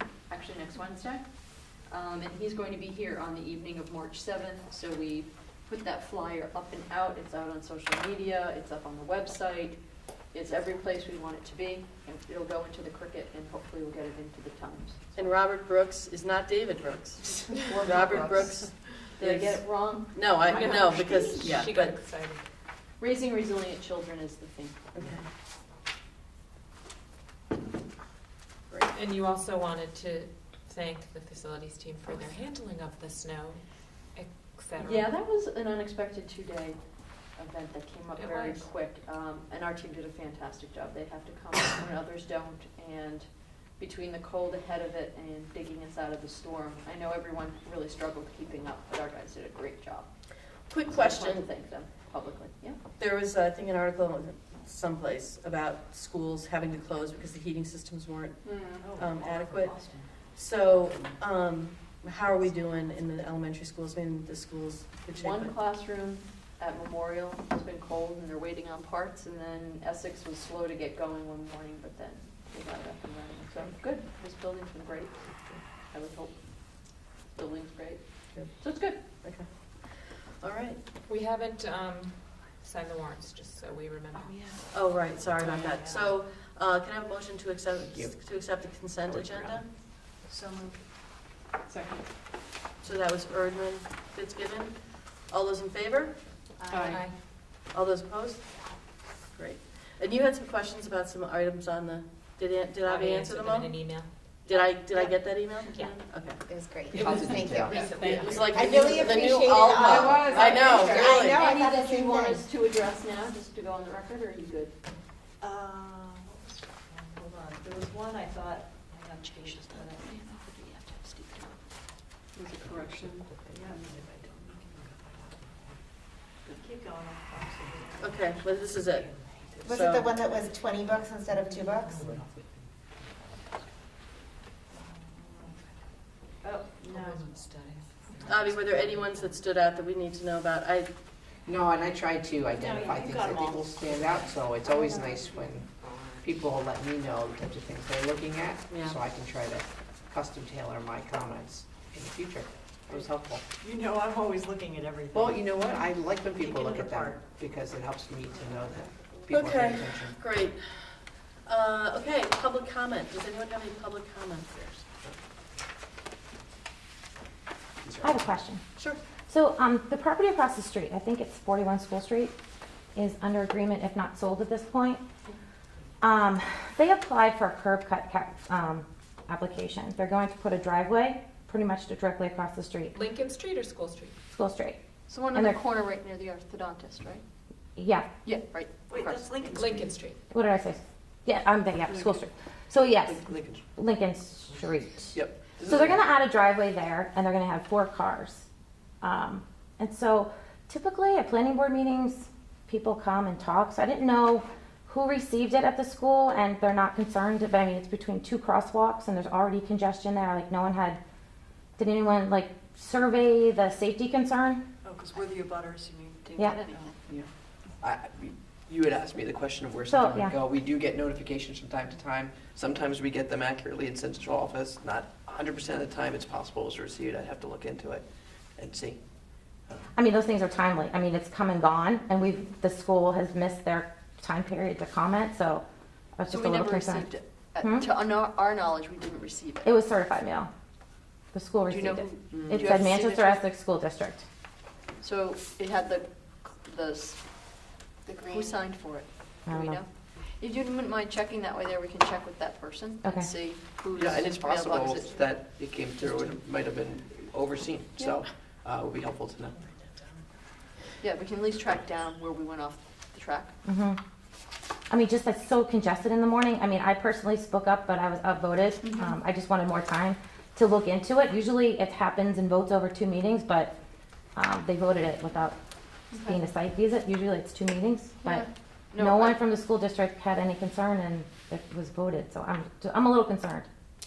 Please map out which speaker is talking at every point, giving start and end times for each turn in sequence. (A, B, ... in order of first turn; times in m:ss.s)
0:00.3-0:09.8 A
0:10.3-0:15.2 A
0:15.1-0:22.0 B
0:17.7-0:20.7 A
0:20.5-0:22.4 C
0:23.0-0:24.8 A
0:24.9-0:25.2 B
0:28.9-0:35.1 C
0:34.8-0:36.8 A
0:37.3-0:50.1 A
0:38.2-0:38.6 C
0:50.7-0:51.4 B
0:50.9-0:52.8 A
0:53.0-1:05.6 B
0:58.5-1:00.1 D
0:58.5-0:58.8 A
1:05.1-1:19.0 A
1:19.1-1:20.8 B
1:21.1-1:24.4 C
1:24.2-1:24.6 D
1:24.7-1:29.7 B
1:25.4-1:26.1 D
1:27.8-1:28.2 E
1:29.0-1:29.6 E
1:30.3-1:30.8 D
1:31.7-1:32.0 A
1:32.8-1:37.0 B
1:37.6-1:38.7 B
1:39.3-1:43.8 B
1:42.8-1:45.1 C
1:44.4-1:46.4 B
1:45.7-1:46.0 C
1:46.5-1:52.4 F
1:46.9-1:47.9 E
1:47.5-1:49.2 C
1:47.8-1:51.4 B
1:50.3-1:54.7 A
1:55.4-2:01.1 D
1:59.3-2:01.2 A
2:02.3-2:03.8 A
2:03.5-2:05.4 D
2:06.4-2:09.6 D
2:08.0-2:09.1 B
2:09.6-2:10.0 B
2:09.6-2:12.1 F
2:14.9-2:15.5 D
2:16.4-2:17.3 D
2:16.9-2:19.2 C
2:18.2-2:20.9 B
2:21.4-2:25.7 E
2:22.5-2:24.8 D
2:26.2-2:33.4 E
2:28.7-2:29.0 B
2:33.6-2:37.2 D
2:35.1-2:40.2 E
2:38.5-2:38.8 D
2:39.3-2:40.9 B
2:41.4-2:44.6 B
2:47.8-2:48.3 E
2:48.0-2:48.6 G
2:49.3-2:52.3 G
2:52.9-2:55.0 G
2:56.0-3:03.0 G
3:02.9-3:04.2 C
3:04.3-3:04.8 G
3:05.1-3:07.2 A
3:07.8-3:08.1 G
3:08.2-3:09.7 A
3:08.9-3:09.9 D
3:09.5-3:10.2 C
3:10.3-3:18.4 G
3:13.0-3:13.6 E
3:15.1-3:16.0 E
3:19.0-3:31.0 G
3:31.8-3:34.6 G
3:34.8-3:36.9 D
3:36.2-3:37.0 A
3:37.8-3:48.0 E
3:39.9-3:40.3 G
3:48.6-3:49.0 E
3:49.9-3:55.6 G
3:56.2-3:57.1 G
3:56.3-3:59.7 A
3:57.6-3:57.9 G
3:59.6-4:00.5 G
4:01.3-4:04.2 G
4:01.7-4:03.4 A
4:05.0-4:07.2 A
4:08.1-4:09.9 A
4:09.5-4:09.8 G
4:10.4-4:15.2 A
4:13.0-4:13.3 G
4:13.9-4:19.6 E
4:19.6-4:20.2 B
4:21.0-4:23.5 A
4:23.6-4:24.0 G
4:24.9-4:33.7 G
4:28.8-4:29.1 A
4:34.4-4:35.6 G
4:36.1-4:36.4 A
4:36.1-4:38.5 G
4:38.2-4:39.4 A
4:39.0-4:43.7 G